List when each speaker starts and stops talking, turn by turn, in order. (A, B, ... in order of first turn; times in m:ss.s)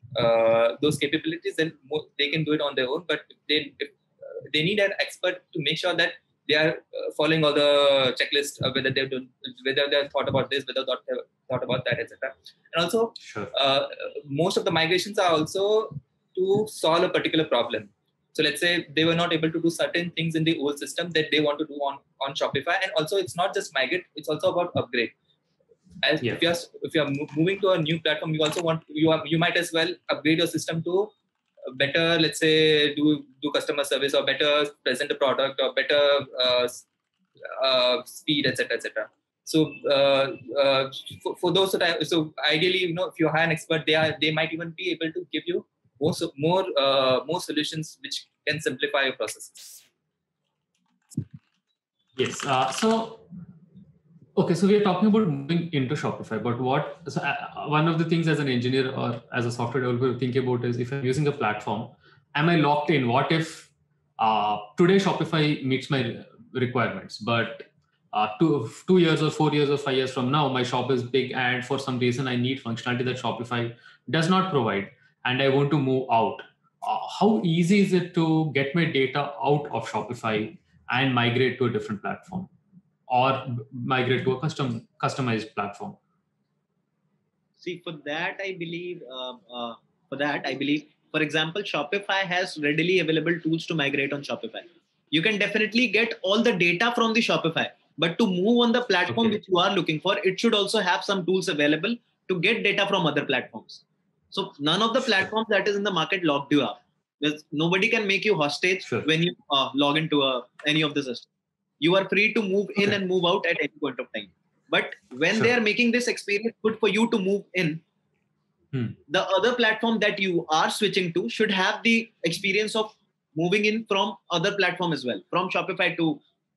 0:00.2-0:25.1 A
0:13.2-0:13.5 B
0:26.0-0:31.1 A
0:31.7-0:36.8 A
0:37.4-0:49.8 A
0:52.2-0:53.3 B
0:54.4-1:22.5 B
1:23.1-1:26.0 B
1:27.6-1:51.3 C
1:39.1-1:39.4 B
1:51.8-1:57.8 C
1:59.1-2:06.2 C